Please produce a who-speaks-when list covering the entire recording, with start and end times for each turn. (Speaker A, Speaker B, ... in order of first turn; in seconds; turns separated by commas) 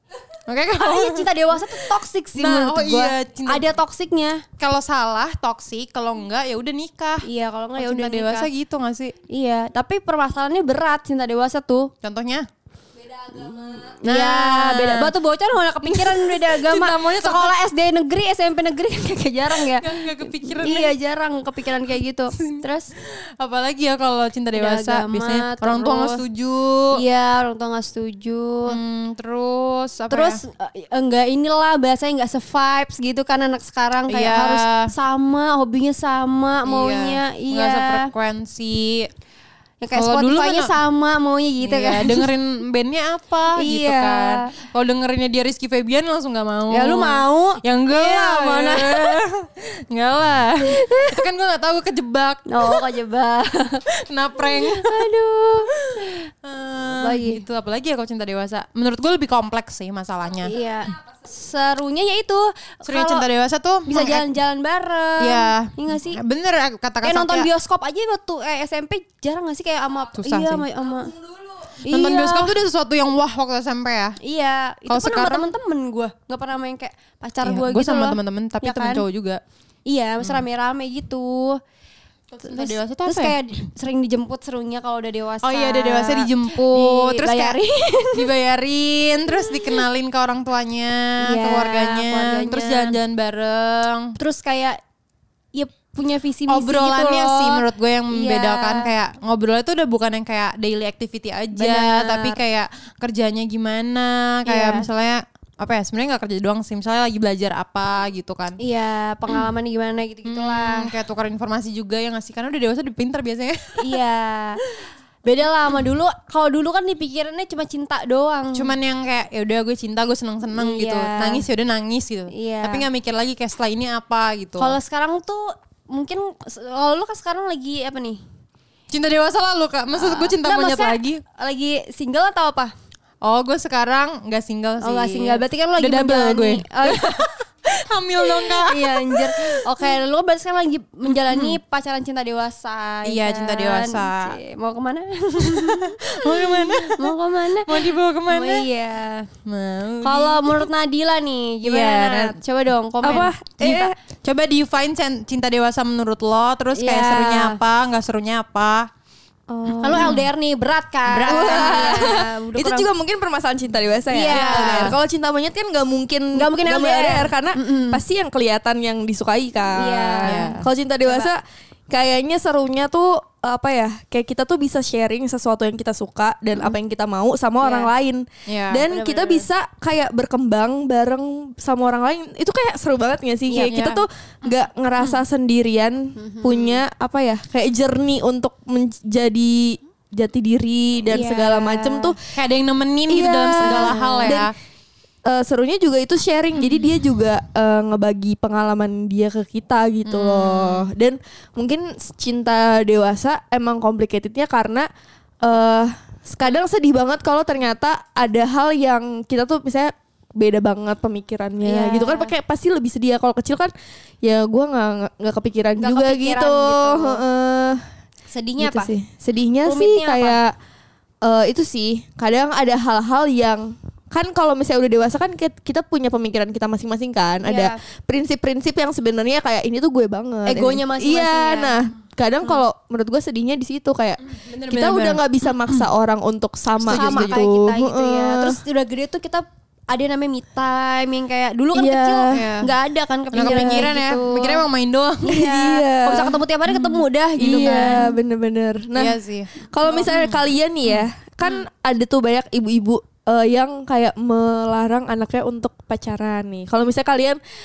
Speaker A: 0.5-1.8, Speaker B: 0.7-4.4, Speaker A: 2.4-3.7, Speaker A: 4.6-9.2, Speaker B: 7.2-8.5, Speaker B: 9.3-11.9, Speaker A: 12.0-12.4, Speaker B: 13.2-22.9, Speaker A: 14.0-15.1, Speaker A: 15.8-17.5, Speaker A: 19.5-21.0, Speaker A: 22.3-22.6, Speaker A: 23.4-27.0, Speaker B: 24.5-26.2, Speaker B: 26.9-28.8, Speaker A: 28.7-30.4, Speaker B: 30.1-38.1, Speaker A: 34.1-34.9, Speaker A: 36.6-39.1, Speaker B: 39.8-42.3, Speaker A: 39.9-40.8, Speaker A: 41.6-52.9, Speaker B: 43.6-44.5, Speaker B: 46.7-49.2, Speaker B: 50.6-51.2, Speaker B: 52.5-53.8, Speaker A: 53.9-55.1, Speaker B: 54.4-56.2, Speaker A: 55.7-60.5, Speaker B: 56.9-57.4, Speaker B: 60.4-63.3, Speaker A: 62.9-64.3, Speaker B: 63.9-66.2, Speaker A: 65.2-67.5, Speaker B: 67.0-72.6, Speaker A: 70.1-70.7, Speaker A: 71.6-74.2, Speaker B: 74.2-79.0, Speaker A: 74.9-75.5, Speaker A: 77.4-79.4, Speaker B: 79.9-81.6, Speaker A: 80.2-80.5, Speaker A: 82.3-83.4, Speaker B: 82.4-88.3, Speaker A: 85.4-87.6, Speaker A: 88.1-94.2, Speaker B: 89.4-89.8, Speaker B: 91.2-93.0, Speaker B: 94.2-94.8, Speaker B: 95.5-98.9, Speaker A: 96.5-108.6, Speaker B: 101.5-102.4, Speaker B: 104.5-104.9, Speaker B: 108.6-111.0, Speaker A: 110.2-114.0, Speaker B: 113.8-114.6, Speaker B: 115.2-118.7, Speaker A: 118.5-124.8, Speaker B: 120.5-121.5, Speaker B: 122.3-122.9, Speaker B: 124.6-128.2, Speaker A: 128.9-131.2, Speaker B: 129.9-132.7, Speaker A: 133.2-139.9, Speaker B: 134.8-137.3, Speaker B: 138.2-149.3, Speaker A: 141.1-141.6, Speaker A: 143.0-144.4, Speaker A: 145.4-148.7, Speaker A: 149.5-150.7, Speaker B: 150.0-153.3, Speaker A: 151.6-152.4, Speaker C: 153.0-154.0, Speaker A: 153.6-158.9, Speaker B: 156.7-157.6, Speaker C: 159.5-160.2, Speaker B: 159.8-162.9, Speaker A: 159.8-160.3, Speaker A: 161.1-162.2, Speaker C: 161.2-192.2, Speaker B: 164.1-165.0, Speaker A: 164.3-165.0, Speaker B: 166.3-168.1, Speaker B: 169.8-171.3, Speaker A: 170.2-170.7, Speaker B: 177.6-177.9, Speaker A: 178.5-178.9, Speaker B: 178.9-179.5, Speaker B: 183.5-183.8, Speaker A: 183.6-185.2, Speaker B: 186.2-186.8, Speaker B: 191.1-192.2, Speaker A: 192.3-194.5, Speaker C: 193.1-194.5, Speaker B: 193.6-194.5, Speaker C: 195.3-204.9, Speaker A: 200.1-200.9, Speaker C: 205.4-217.8, Speaker B: 211.6-212.3, Speaker B: 215.8-217.2, Speaker B: 218.3-218.9, Speaker C: 218.6-220.5, Speaker B: 219.6-220.4, Speaker C: 221.2-238.6, Speaker B: 227.4-227.8, Speaker B: 230.4-231.8, Speaker A: 234.2-235.9, Speaker A: 236.8-237.4, Speaker B: 236.9-244.7, Speaker C: 241.7-242.6, Speaker A: 242.3-242.7, Speaker A: 243.3-245.4, Speaker C: 243.4-243.8, Speaker B: 245.2-248.1, Speaker C: 245.3-246.4, Speaker A: 246.7-248.1, Speaker C: 247.4-257.4, Speaker A: 248.9-251.7